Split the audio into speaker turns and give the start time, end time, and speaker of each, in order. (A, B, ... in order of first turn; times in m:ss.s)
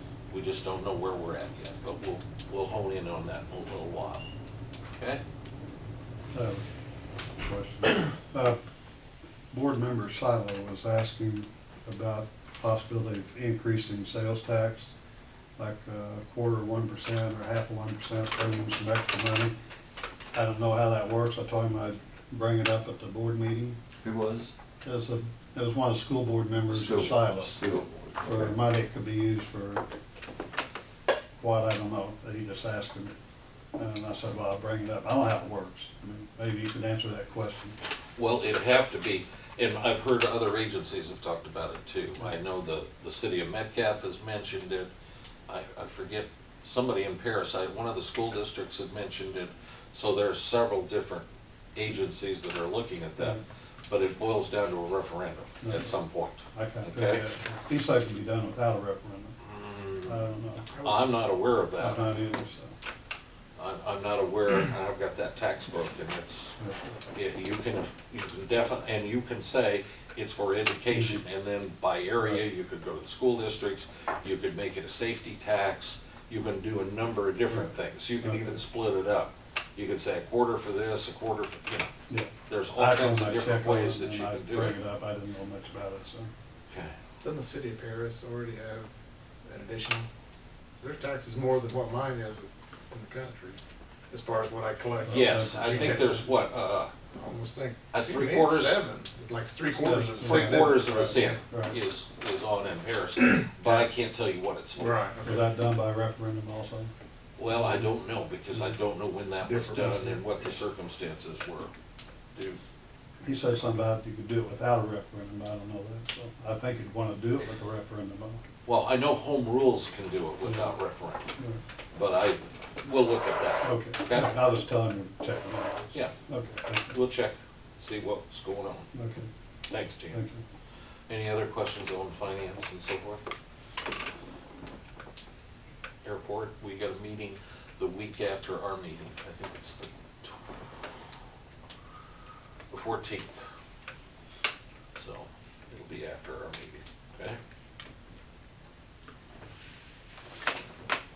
0:00.3-0:04.2 A
0:05.0-0:05.2 A
0:06.3-0:06.6 B
0:07.4-0:08.6 B
0:09.5-0:14.9 B
0:15.6-0:19.5 B
0:20.3-0:23.8 B
0:24.0-0:24.5 C
0:24.8-0:27.5 B
0:26.7-0:28.6 C
0:28.2-0:29.8 B
0:31.4-0:33.1 B
0:33.8-0:37.8 B
0:38.2-0:44.9 A
0:45.5-0:57.3 A
0:55.6-0:55.9 B
0:56.5-0:59.4 B
0:59.4-1:00.3 A
1:00.0-1:00.7 B
1:00.7-1:01.0 D
1:00.8-1:02.1 A
1:01.8-1:02.7 B
1:03.6-1:06.6 A
1:06.6-1:07.1 B
1:07.1-1:21.9 A
1:10.9-1:11.2 B
1:18.2-1:18.6 B
1:22.1-1:26.3 B
1:22.5-1:24.8 A
1:27.2-1:28.9 D
1:29.4-1:30.1 D
1:30.8-1:33.6 D
1:34.1-1:36.1 D
1:35.0-1:36.3 B
1:35.1-1:36.9 A
1:37.2-1:41.2 D
1:37.9-1:38.8 A
1:39.7-1:41.8 B
1:40.2-1:45.0 A
1:43.6-1:43.9 D
1:44.8-1:45.6 D
1:45.2-1:46.9 B
1:47.4-1:51.7 A
1:47.5-1:47.9 B
1:49.4-1:50.0 D
1:49.6-1:50.2 B
1:53.2-1:58.4 B
1:58.6-2:01.3 A
2:00.4-2:00.7 B
2:01.9-2:04.4 A
2:03.6-2:07.0 B
2:06.9-2:08.9 A
2:08.9-2:09.3 B
2:09.7-2:10.2 A
2:10.1-2:10.4 B
2:11.1-2:13.2 A
2:16.0-2:20.4 A
2:22.7-2:23.5 A
2:25.0-2:27.4 A